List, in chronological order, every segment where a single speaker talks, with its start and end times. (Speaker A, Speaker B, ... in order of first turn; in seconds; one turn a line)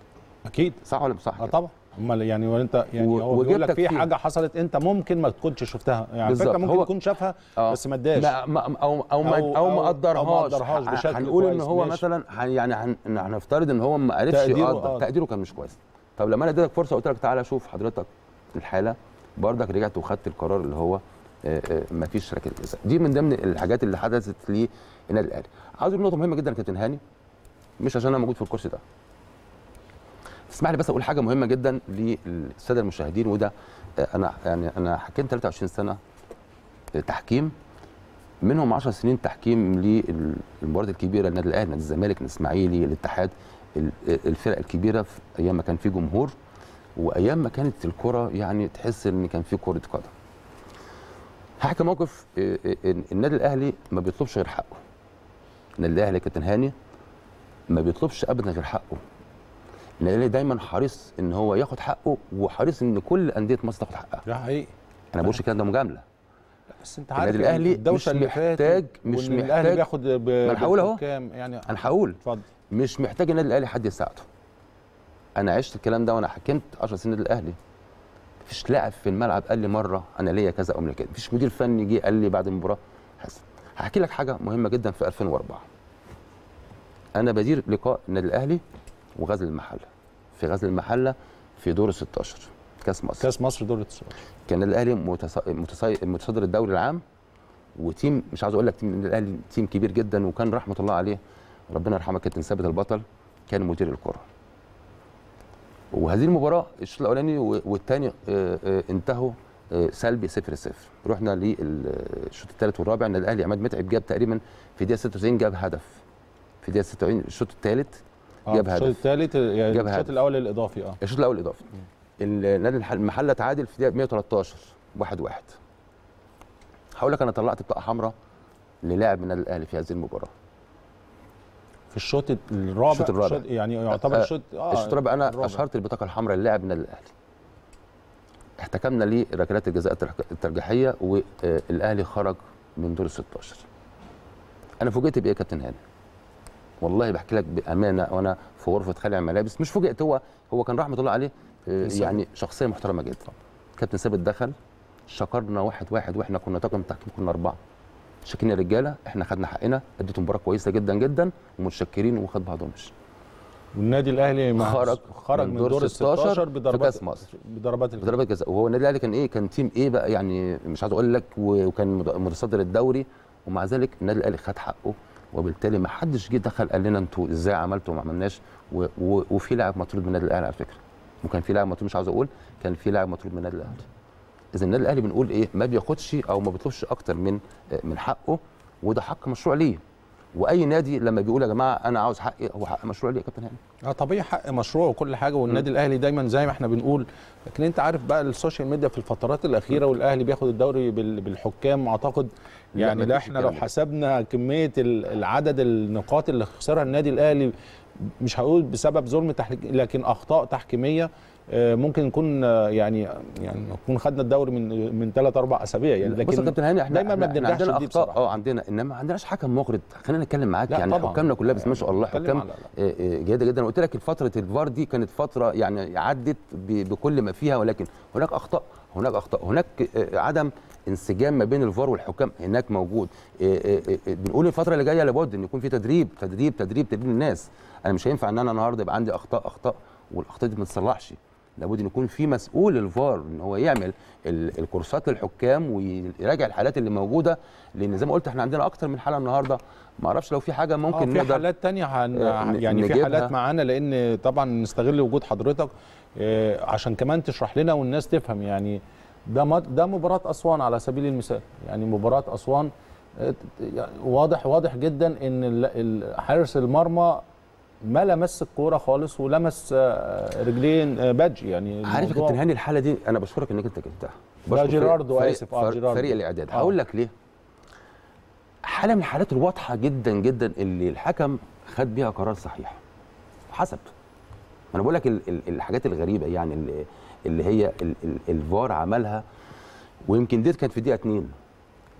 Speaker A: 0.5-0.8
Speaker B: 0.8-1.6
Speaker A: 1.4-8.3
Speaker B: 3.0-4.1
Speaker B: 6.2-6.9
Speaker B: 7.6-27.0
Speaker A: 9.2-12.0
Speaker A: 14.3-15.1
Speaker B: 27.8-28.8
Speaker B: 30.5-36.0
Speaker B: 36.9-37.5
Speaker B: 38.4-46.4
Speaker B: 47.0-50.1
Speaker B: 51.6-54.8
Speaker B: 55.8-56.8
Speaker B: 57.7-59.0
Speaker B: 60.0-64.2
Speaker A: 64.3-64.7
Speaker B: 65.1-66.0
Speaker A: 66.8-72.5
Speaker B: 67.2-69.9
Speaker B: 70.4-71.0
Speaker B: 71.7-72.2
Speaker B: 72.7-74.3
Speaker B: 75.4-77.6
Speaker B: 78.4-85.7
Speaker B: 87.2-88.6
Speaker B: 89.2-93.3
Speaker A: 93.2-94.2
Speaker B: 94.5-97.0
Speaker B: 97.8-104.3
Speaker B: 105.9-116.0
Speaker B: 116.6-119.0
Speaker A: 118.5-121.0
Speaker B: 119.7-120.2
Speaker B: 121.0-121.7
Speaker B: 122.2-125.6
Speaker B: 127.0-128.2
Speaker B: 128.8-130.3
Speaker A: 131.9-135.6
Speaker B: 132.9-137.1
Speaker B: 138.6-143.7
Speaker B: 144.8-145.8
Speaker B: 146.8-154.6
Speaker B: 155.1-157.6
Speaker B: 158.2-162.9
Speaker A: 163.8-168.2
Speaker B: 164.6-167.2
Speaker B: 168.0-183.9
Speaker B: 184.5-189.8
Speaker B: 190.3-193.6
Speaker A: 193.9-207.5
Speaker B: 202.8-203.7
Speaker A: 208.2-218.2
Speaker B: 216.0-251.4
Speaker A: 220.7-222.7
Speaker A: 250.9-267.2
Speaker B: 252.1-253.3
Speaker A: 267.8-272.4
Speaker B: 271.8-277.1
Speaker A: 274.5-276.7
Speaker B: 278.6-282.8
Speaker B: 283.5-283.9
Speaker B: 284.7-289.2
Speaker B: 290.1-291.3